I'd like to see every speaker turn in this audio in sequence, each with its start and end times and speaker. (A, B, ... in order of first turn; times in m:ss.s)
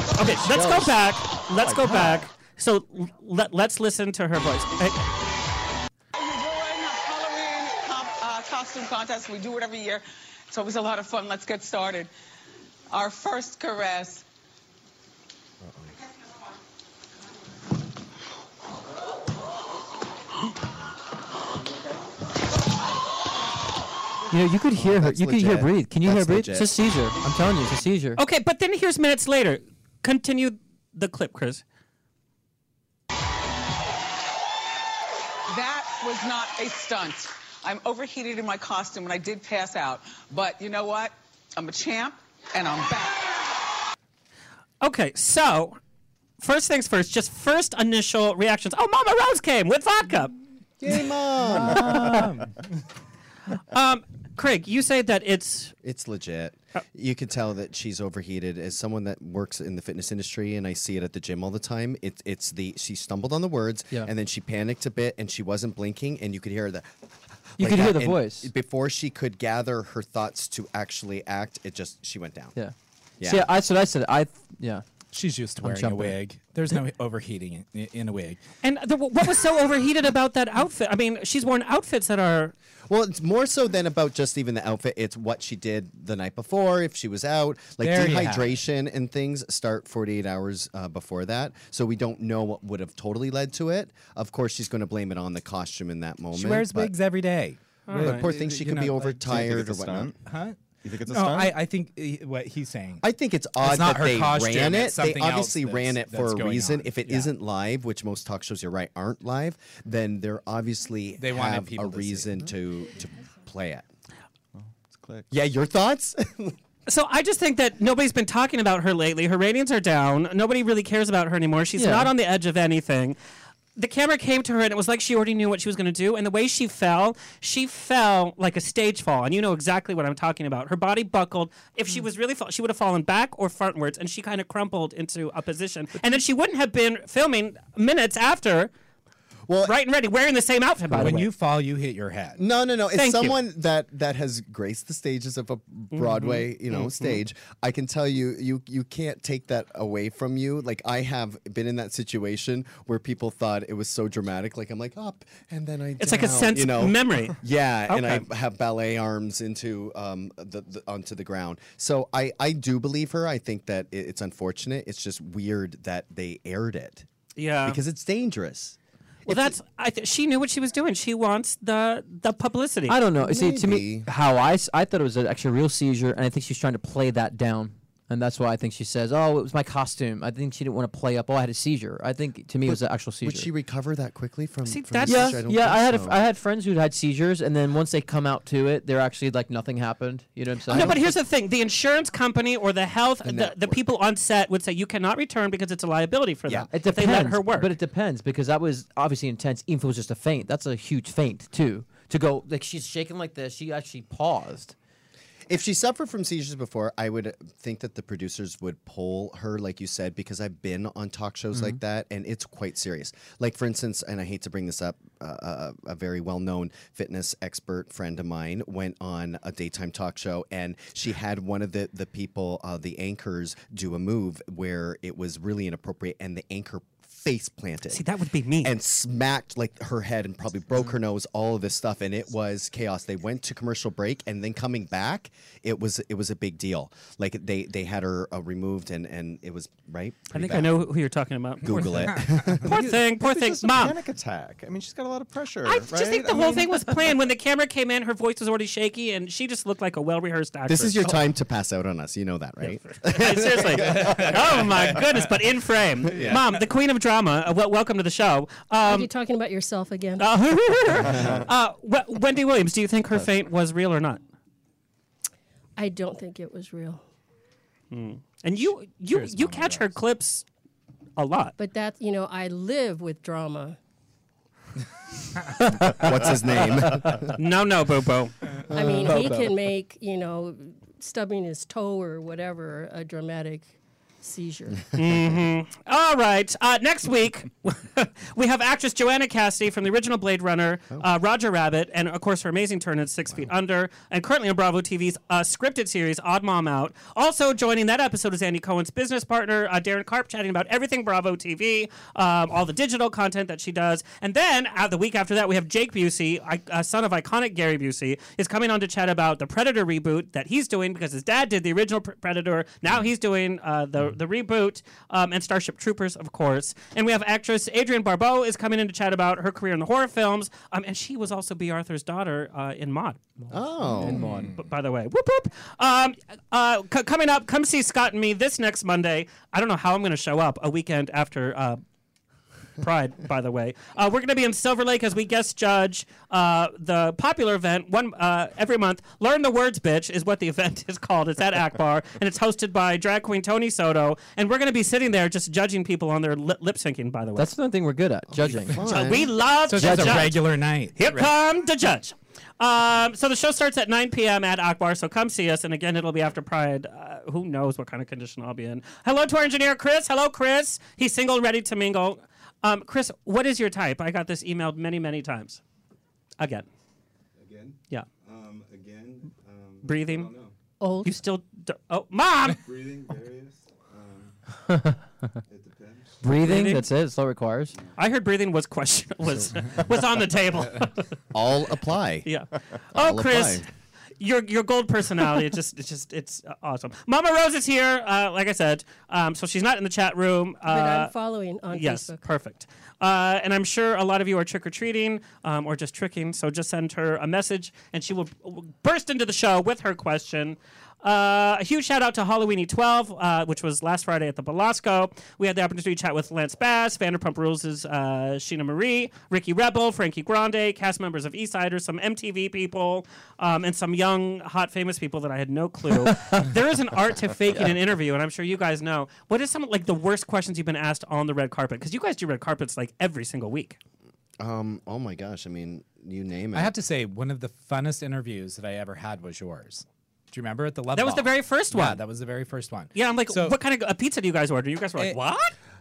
0:00.2-0:05.1 A
0:00.3-0:02.3 B
0:06.1-0:12.1 C
0:12.9-0:14.3 C
0:15.6-0:16.0 B
0:24.3-0:28.2 D
0:24.7-0:26.9 B
0:28.2-0:31.6 A
0:35.5-0:43.3 C
0:44.8-0:45.8 A
0:46.4-0:50.4 A
0:50.8-0:52.3 B
0:51.4-0:52.5 E
0:53.7-0:55.7 A
0:55.8-1:06.9 B
1:07.5-1:12.6 B
1:07.6-1:08.5 D
1:12.6-1:14.8 D
1:13.2-1:13.5 B
1:15.1-1:18.4 E
1:15.6-1:16.2 D
1:18.6-1:22.5 A
1:22.9-1:36.9 B
1:27.8-1:28.6 E
1:36.3-1:39.4 E
1:37.9-1:38.2 A
1:37.9-1:40.1 B
1:39.3-1:40.1 F
1:40.2-1:43.0 E
1:40.8-1:41.6 F
1:43.0-1:53.9 B
1:43.6-1:47.3 E
1:51.2-1:52.4 E
1:54.6-1:55.3 F
1:55.3-1:56.6 B
1:56.9-2:03.2 A
2:01.8-2:02.1 D
2:03.8-2:18.7 A
2:19.5-2:19.8 B
2:19.6-2:21.3 A
2:20.9-2:22.4 E
2:22.4-2:47.1 B
2:23.0-2:23.4 A
2:25.9-2:26.9 A
2:36.0-2:38.3 A
2:47.4-2:47.8 A
2:47.6-2:49.6 B
2:49.3-2:53.0 A
2:52.9-3:03.5 D
2:53.2-2:54.1 B
3:02.6-3:06.2 B
3:04.7-3:05.4 A
3:05.0-3:11.1 D
3:10.7-3:11.0 B
3:10.7-3:17.7 A
3:13.2-3:13.8 B
3:16.7-3:24.8 D
3:25.5-3:48.1 B
3:47.9-3:48.7 A
3:48.6-4:00.8 B
4:00.3-4:04.0 A
4:01.6-4:02.7 B
4:02.7-4:07.2 F
4:05.6-4:11.2 A
4:10.7-4:14.6 B
4:13.0-4:19.1 A
4:16.1-4:16.4 B
4:18.8-4:20.3 G
4:20.2-4:24.2 A
4:21.0-4:21.5 B
4:25.8-4:27.0 G
4:27.9-4:30.4 A
4:29.1-4:29.9 E
4:31.2-4:31.6 A
4:31.6-4:33.8 G
4:35.6-4:35.9 D
4:35.8-4:37.4 B
4:37.2-4:38.4 A
4:38.7-4:44.9 G
4:38.7-4:39.3 B
4:39.1-4:39.4 D
4:45.0-5:23.4 A
5:23.5-5:24.2 B
5:23.9-5:24.5 D
5:24.0-5:31.8 A
5:32.8-5:47.5 A
5:47.4-5:48.9 D
5:48.3-5:49.3 B
5:48.8-6:05.6 A
5:49.7-5:51.3 E
5:49.8-5:50.3 D
6:06.4-6:06.7 A
6:07.4-6:10.6 H
6:09.8-6:10.3 A
6:10.8-6:11.2 G
6:11.0-6:12.6 A
6:12.6-6:14.4 H
6:14.7-6:15.0 D
6:15.5-6:16.3 H
6:16.2-6:17.8 D
6:16.4-6:16.9 A
6:18.0-6:21.1 A
6:21.3-6:22.3 B
6:22.2-6:23.6 A
6:22.9-6:23.7 B
6:24.2-6:31.1 A
6:30.6-6:32.2 G
6:31.7-7:03.8 A
6:56.0-6:56.5 D
7:04.4-7:06.7 B
7:06.5-7:13.6 E
7:10.9-7:12.0 A
7:13.0-7:15.6 A